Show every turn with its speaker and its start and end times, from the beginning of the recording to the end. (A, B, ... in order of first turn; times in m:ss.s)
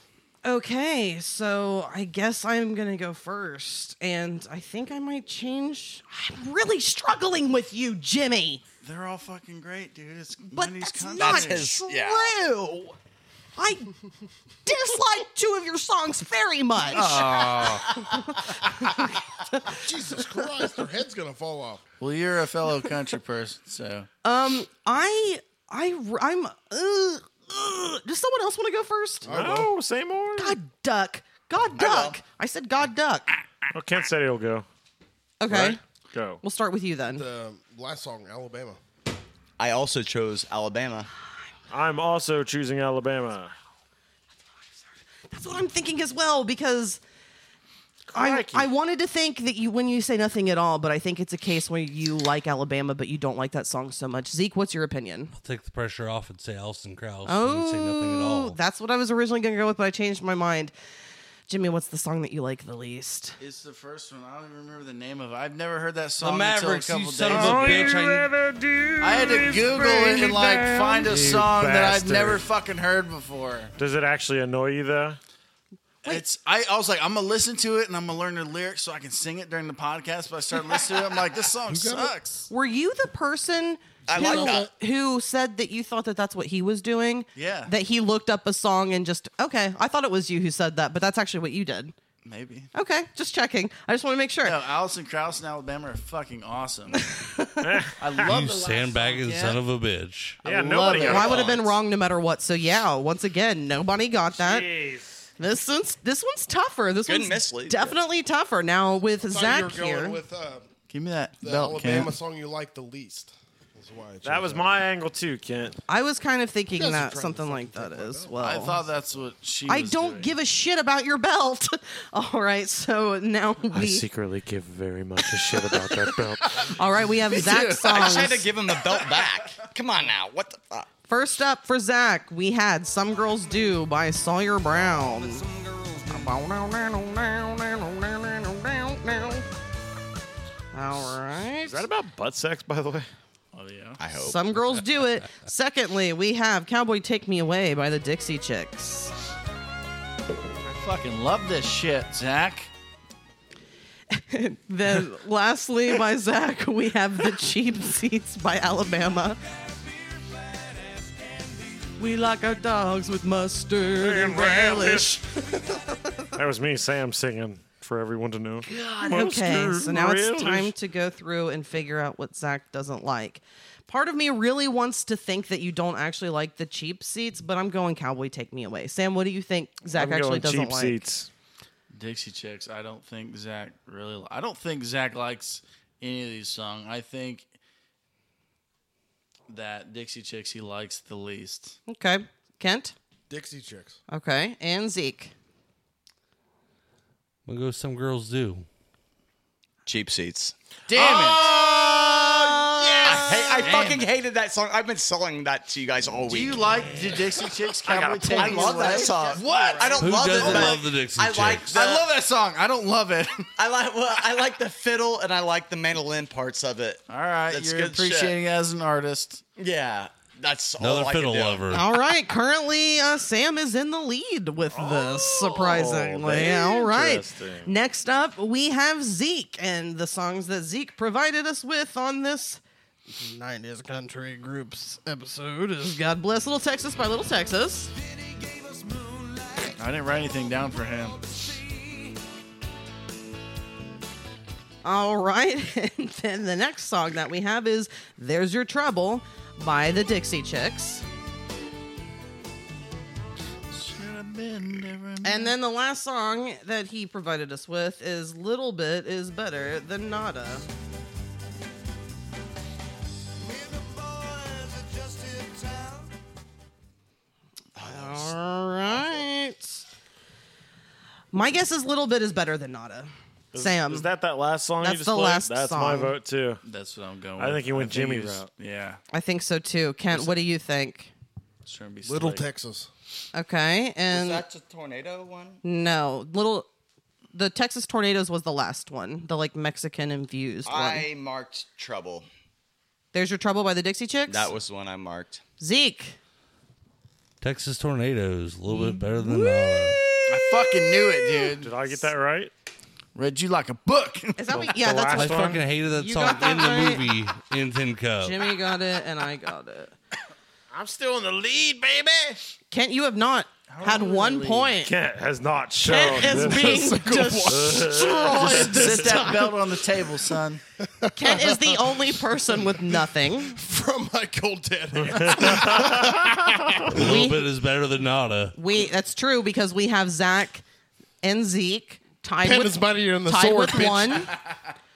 0:00.4-0:08.6 A
0:08.8-0:11.8 B
0:10.5-0:13.0 A
0:11.2-0:12.3 C
0:13.6-0:13.9 A
0:14.7-0:20.5 A
0:16.9-0:18.0 B
0:19.7-0:21.8 D
0:22.0-0:24.1 B
0:24.2-0:29.3 A
0:29.2-0:29.7 D
0:29.3-0:30.6 E
0:30.4-0:33.3 A
0:31.8-0:32.2 C
0:33.7-0:34.7 E
0:35.4-0:35.8 A
0:35.5-0:36.4 E
0:36.4-0:37.2 A
0:37.2-0:38.8 D
0:39.6-0:41.1 C
0:41.7-0:43.6 E
0:45.3-0:47.0 A
0:48.1-0:48.7 E
0:48.1-0:55.3 A
0:55.3-0:58.6 F
0:57.3-1:00.7 A
1:01.5-1:03.4 A
1:03.4-1:07.9 B
1:06.2-1:07.0 C
1:06.8-1:08.3 F
1:07.3-1:12.4 E
1:09.0-1:13.7 B
1:13.8-1:15.2 E
1:16.0-1:22.5 B
1:21.7-1:22.1 D
1:22.5-1:32.0 A
1:24.1-1:24.7 C
1:24.2-1:24.7 D
1:27.4-1:27.7 B
1:32.2-1:32.7 B
1:32.7-1:34.6 A
1:34.4-1:37.0 B
1:36.9-1:37.8 A
1:37.6-1:38.3 E
1:38.0-1:39.6 B
1:38.2-1:40.4 F
1:40.4-1:41.6 E
1:40.4-1:41.3 D
1:40.9-1:44.7 A
1:41.0-1:41.5 B
1:41.2-1:41.6 C
1:44.4-1:45.3 E
1:45.4-1:50.2 A
1:47.1-1:48.0 C
1:49.2-1:50.7 D
1:50.9-1:52.1 B
1:51.4-1:54.8 D
1:54.2-1:55.8 E
1:55.9-1:58.8 A
1:56.7-1:58.7 D
1:58.4-2:00.3 B
1:59.7-2:04.0 A
2:03.7-2:06.7 E
2:05.6-2:09.7 B
2:06.6-2:08.5 A
2:07.9-2:10.9 C
2:11.1-2:15.5 A
2:16.1-2:19.5 A
2:20.7-2:21.9 A
2:21.6-2:23.1 E
2:23.5-2:24.0 B
2:24.0-2:24.4 C
2:24.2-2:29.1 A
2:30.6-2:32.7 B
2:34.1-2:39.4 A
2:42.0-2:46.2 A
2:44.0-2:45.2 E
2:46.4-2:50.7 E
2:48.6-3:01.0 A
2:59.9-3:01.3 E
3:01.9-3:07.5 B
3:09.5-3:11.8 B
3:11.9-3:13.0 A
3:13.3-3:14.0 D
3:14.1-3:15.3 A
3:17.5-3:18.7 F
3:19.9-3:26.9 C
3:20.9-3:24.1 B
3:23.0-3:23.7 D
3:26.3-3:30.8 B
3:27.8-3:29.1 E
3:28.0-3:32.1 C
3:30.0-3:31.8 F
3:31.7-3:33.5 B
3:33.6-3:38.4 C
3:37.1-3:39.4 B
3:39.6-3:41.7 C
3:40.8-3:41.9 F
3:41.7-3:57.9 A
3:44.7-3:47.7 E
3:59.8-4:01.4 B
4:04.8-4:11.0 A
4:13.7-4:15.6 B
4:15.2-4:20.7 A
4:27.8-4:28.3 C
4:27.8-4:29.8 A
4:28.8-4:29.3 C
4:31.3-4:34.1 A
4:33.5-4:36.6 E
4:34.8-4:36.1 A
4:36.6-4:39.0 B
4:37.4-4:38.5 E
4:39.1-4:41.1 A
4:40.1-4:40.4 B
4:41.7-4:42.5 B
4:42.0-4:42.9 D
4:43.3-4:44.5 A
4:44.1-4:45.6 C
4:45.6-4:46.7 A
4:47.3-4:51.1 A
4:50.7-4:52.3 C
4:53.1-4:54.5 A
4:54.3-4:55.4 C
4:55.6-4:56.2 A
4:57.4-5:00.0 F
4:58.9-5:01.5 A
5:00.3-5:01.7 B
5:01.6-5:02.5 E
5:03.2-5:04.6 B
5:04.4-5:07.0 A
5:04.5-5:05.6 E
5:05.1-5:08.4 F
5:08.2-5:10.0 A
5:10.7-5:12.4 E
5:12.7-5:14.9 A
5:13.7-5:14.7 B
5:14.8-5:19.3 E
5:15.8-5:19.5 A
5:16.3-5:18.7 D
5:18.2-5:20.6 B
5:20.8-5:27.0 D
5:21.2-5:23.6 A
5:25.0-5:26.5 E
5:26.9-5:28.5 F
5:26.9-5:27.4 A
5:28.5-5:30.6 A
5:31.2-5:34.3 A
5:32.4-5:34.3 D
5:33.8-5:34.7 B